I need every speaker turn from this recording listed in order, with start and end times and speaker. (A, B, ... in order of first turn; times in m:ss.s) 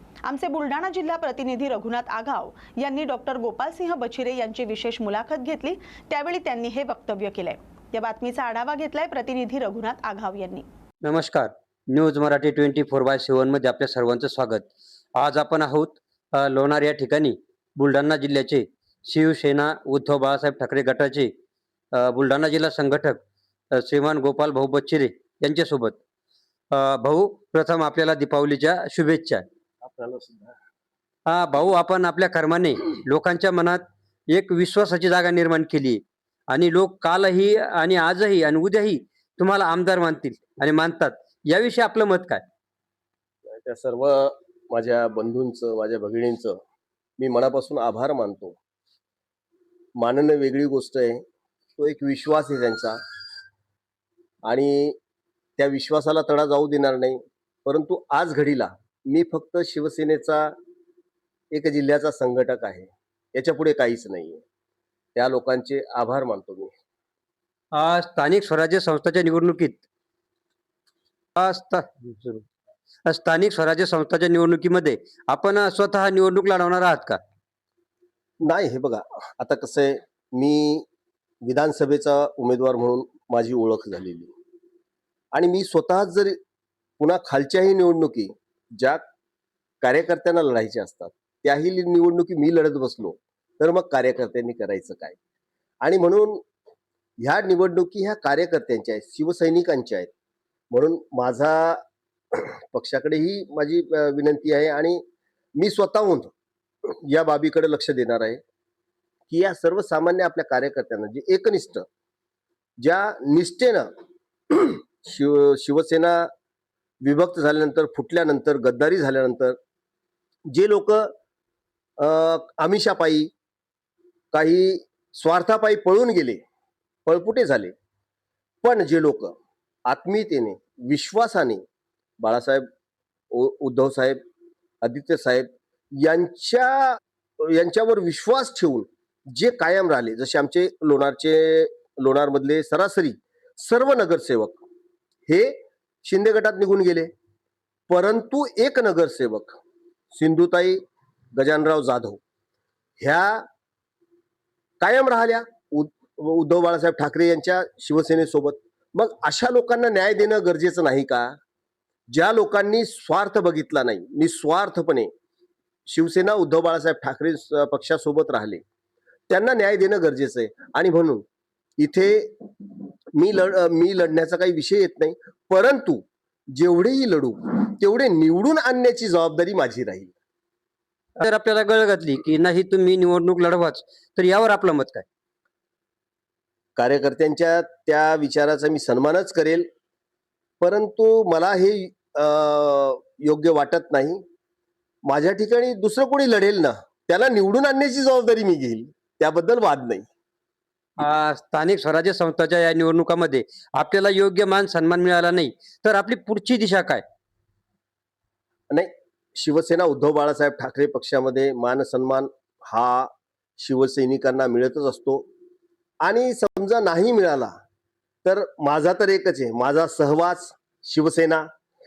0:00.2-0:10.6 A
0:11.0-0:14.7 B
0:15.2-0:21.3 B
0:21.9-0:23.2 B
0:23.8-0:26.0 B
0:26.7-0:29.4 B
0:29.8-0:30.6 C
0:31.3-0:42.4 B
0:43.5-0:46.6 C
0:47.2-0:48.6 C
0:50.0-0:51.2 C
0:51.8-0:53.0 C
0:54.4-0:55.0 C
0:55.6-1:00.5 C
1:01.5-1:04.4 C
1:05.1-1:06.7 C
1:07.7-1:09.8 B
1:11.4-1:12.4 B
1:13.0-1:17.2 B
1:18.4-1:20.8 C
1:21.4-1:24.3 C
1:25.3-1:26.4 C
1:27.0-1:29.0 C
1:29.8-1:35.2 C
1:35.8-1:36.4 C
1:37.2-1:40.1 C
1:40.7-1:41.8 C
1:42.3-1:45.0 C
1:45.6-1:46.3 C
1:47.0-1:48.4 C
1:49.3-1:51.8 C
1:52.8-1:53.9 C
1:54.5-1:56.3 C
1:57.0-1:59.6 C
2:00.5-2:01.1 C
2:02.0-2:03.3 C
2:04.3-2:06.4 C
2:07.0-2:07.7 C
2:08.6-2:09.3 C
2:09.9-2:11.6 C
2:12.2-2:12.7 C
2:13.3-2:14.2 C
2:14.8-2:24.6 C
2:25.3-2:27.1 C
2:27.9-2:29.6 C
2:30.1-2:30.8 C
2:31.3-2:32.2 C
2:33.0-2:33.4 C
2:34.8-2:41.4 C
2:42.1-2:45.1 C
2:45.9-2:48.6 C
2:49.3-2:51.2 C
2:51.8-3:00.1 C
3:01.2-3:05.0 B
3:06.8-3:09.7 C
3:10.6-3:14.2 C
3:15.0-3:20.0 C
3:21.0-3:27.0 B
3:28.7-3:35.2 C
3:36.0-3:37.6 C
3:38.2-3:41.4 C